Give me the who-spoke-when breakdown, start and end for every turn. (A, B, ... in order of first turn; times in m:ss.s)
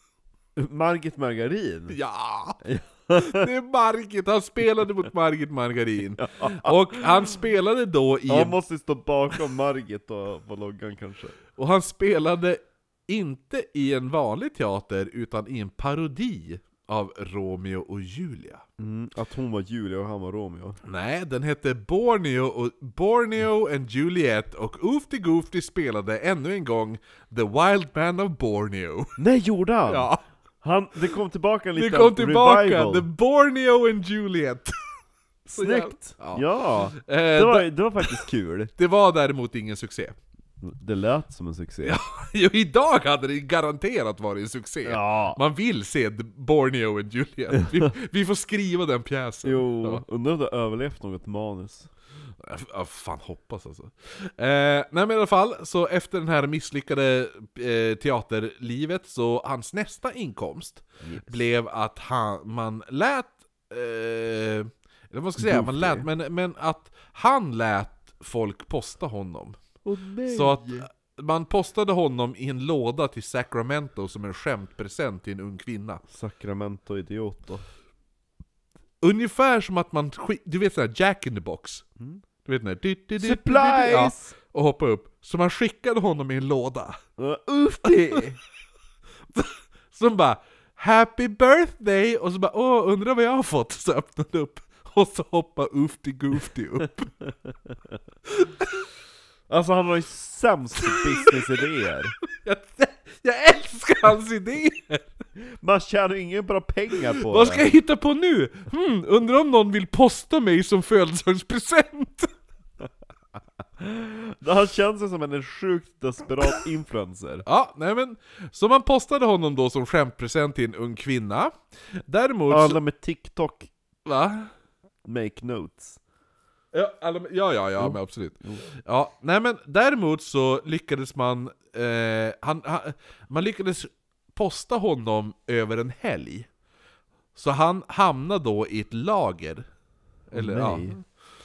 0:00.6-0:02.0 A
0:01.9-0:02.6 B
0:02.6-0:03.5 A
0:03.1-0:08.6 B
0:06.2-0:07.1 A
0:08.3-0:11.4 A
0:11.6-0:18.6 B
0:18.8-0:20.8 A
0:20.8-0:29.2 B
0:29.2-0:33.1 A
0:29.9-0:30.2 B
0:31.8-0:34.8 B
0:35.4-0:38.2 B
0:35.5-0:38.7 A
0:38.8-0:40.2 B
0:40.6-0:42.0 A
0:41.8-0:50.0 B
0:44.8-0:45.4 A
0:49.4-0:51.9 A
0:52.4-1:09.6 B
1:01.0-1:01.4 A
1:05.4-1:06.1 A
1:09.8-1:10.9 A
1:10.3-1:16.0 B
1:16.1-1:17.6 A
1:19.0-1:21.8 B
1:22.4-1:27.0 B
1:23.2-1:24.3 A
1:27.2-1:28.4 A
1:29.3-1:37.1 B
1:38.3-1:38.8 B
1:39.5-1:42.1 A
1:40.9-1:41.3 B
1:42.2-1:45.1 B
1:45.4-1:47.6 A
1:47.1-1:52.3 B
1:53.8-1:57.4 A
1:57.4-2:01.5 B
2:02.1-2:02.8 B
2:02.5-2:03.7 A
2:04.0-2:04.5 B
2:05.0-2:06.0 A
2:06.7-2:16.5 B
2:07.8-2:08.6 A
2:17.3-2:19.6 B
2:20.3-2:21.0 B
2:20.3-2:21.0 A